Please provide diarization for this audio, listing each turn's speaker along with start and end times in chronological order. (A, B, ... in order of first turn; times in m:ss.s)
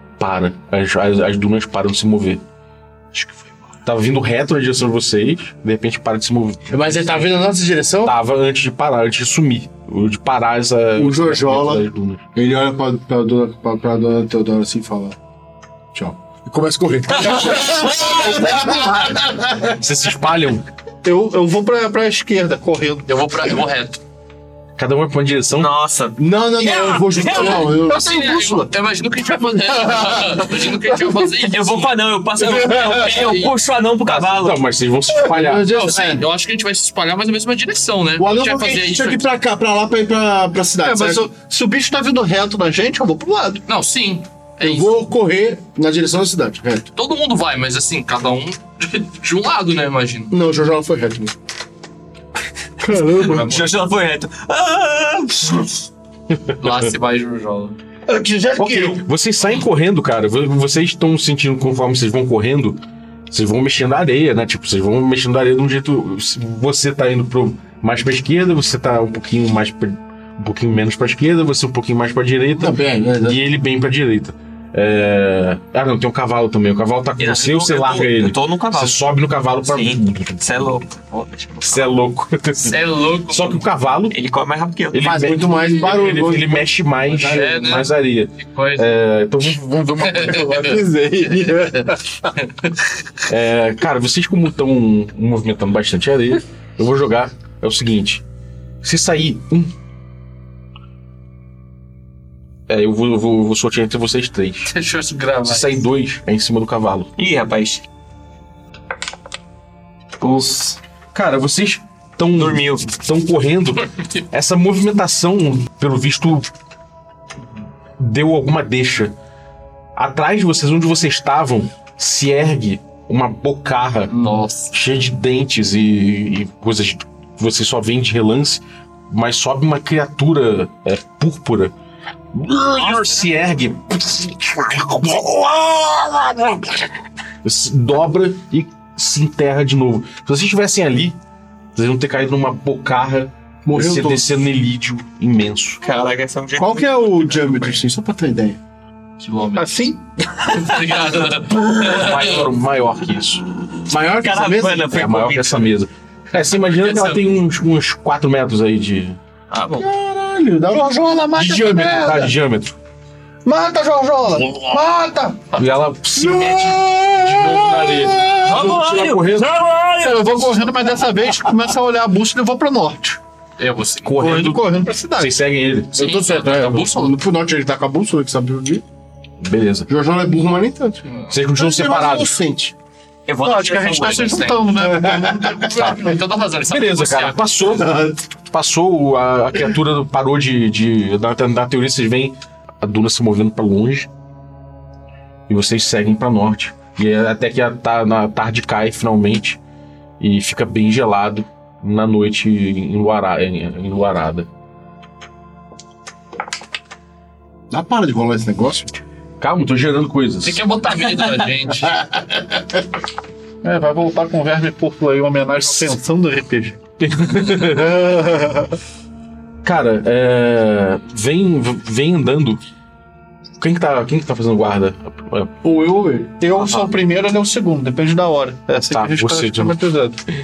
0:00.2-0:02.4 A
0:03.1-0:03.4 B
0:03.8-0:06.8 A
0:06.7-0:08.1 B
0:08.0-0:12.2 A
0:11.0-0:15.2 B
0:15.9-0:19.7 B
0:17.2-0:18.4 C
0:19.8-0:20.6 A
0:21.0-0:23.1 D
0:23.1-0:24.0 E
0:24.8-0:25.7 A
0:25.5-0:26.2 C
0:26.2-0:28.6 B
0:26.6-0:33.5 E
0:27.9-0:28.6 D
0:31.1-0:34.6 C
0:34.1-0:35.7 A
0:35.2-0:36.2 B
0:35.6-0:39.2 E
0:38.2-0:41.3 B
0:40.8-0:43.6 D
0:43.7-0:45.0 E
0:44.6-0:46.9 B
0:47.0-0:50.3 E
0:50.3-0:51.3 B
0:52.8-0:53.6 B
0:53.1-0:53.7 E
0:53.3-0:55.8 C
0:56.6-0:57.8 E
0:58.1-0:59.0 D
0:58.5-1:20.8 A
1:12.6-1:13.4 B
1:17.2-1:19.0 C
1:19.6-1:22.0 C
1:21.6-1:24.2 A
1:22.6-1:23.6 E
1:24.1-1:25.2 C
1:24.9-1:30.1 A
1:25.0-1:27.9 B
1:27.2-1:29.0 E
1:29.9-1:32.0 B
1:30.0-1:30.8 E
1:33.3-1:38.2 A
1:38.8-1:39.7 A
1:42.7-1:44.7 A
1:44.7-1:45.8 E
1:45.4-1:47.1 A
1:47.2-1:47.8 C
1:50.2-1:50.8 C
1:51.1-1:56.5 A
1:52.3-1:52.9 C
1:58.0-1:59.1 A
2:00.0-2:04.1 A
2:04.1-2:04.7 E
2:04.7-2:11.7 A
2:12.3-2:16.9 A
2:12.8-2:13.3 C
2:17.4-2:21.2 A
2:21.7-2:25.8 A
2:23.6-2:24.4 B
2:25.8-2:27.7 C
2:26.6-2:28.6 B
2:29.2-2:29.7 E
2:29.5-2:30.0 D
2:30.4-2:32.4 E
2:31.5-2:33.4 A
2:33.9-2:35.0 B
2:34.0-2:35.7 C
2:34.8-2:39.2 A
2:36.6-2:37.2 E
2:39.5-2:39.9 C
2:39.7-2:41.1 B
2:40.7-2:42.3 D
2:41.3-2:42.8 A
2:43.4-2:45.5 D
2:45.5-2:49.6 A
2:46.2-2:48.8 B
2:48.4-2:50.3 C
2:50.0-2:53.2 D
2:53.6-2:54.4 E
2:54.0-2:56.0 A
2:54.2-2:55.3 D
2:55.9-2:57.2 E
2:55.9-2:58.8 B
2:59.4-2:59.9 A
2:59.9-3:02.7 B
3:01.3-3:02.3 A
3:03.3-3:04.7 C
3:03.4-3:05.8 D
3:04.7-3:06.0 B
3:05.5-3:07.4 E
3:06.7-3:14.1 A
3:07.6-3:08.2 B
3:15.5-3:19.6 A
3:20.2-3:24.5 A
3:27.7-3:28.9 B
3:29.4-3:30.6 A
3:30.4-3:32.0 E
3:33.6-3:36.8 D
3:37.0-3:38.0 A
3:37.8-3:38.6 B
3:39.6-3:42.6 A
3:43.6-3:45.5 A
3:45.6-3:46.4 B
3:46.4-3:50.2 D
3:48.9-3:49.8 A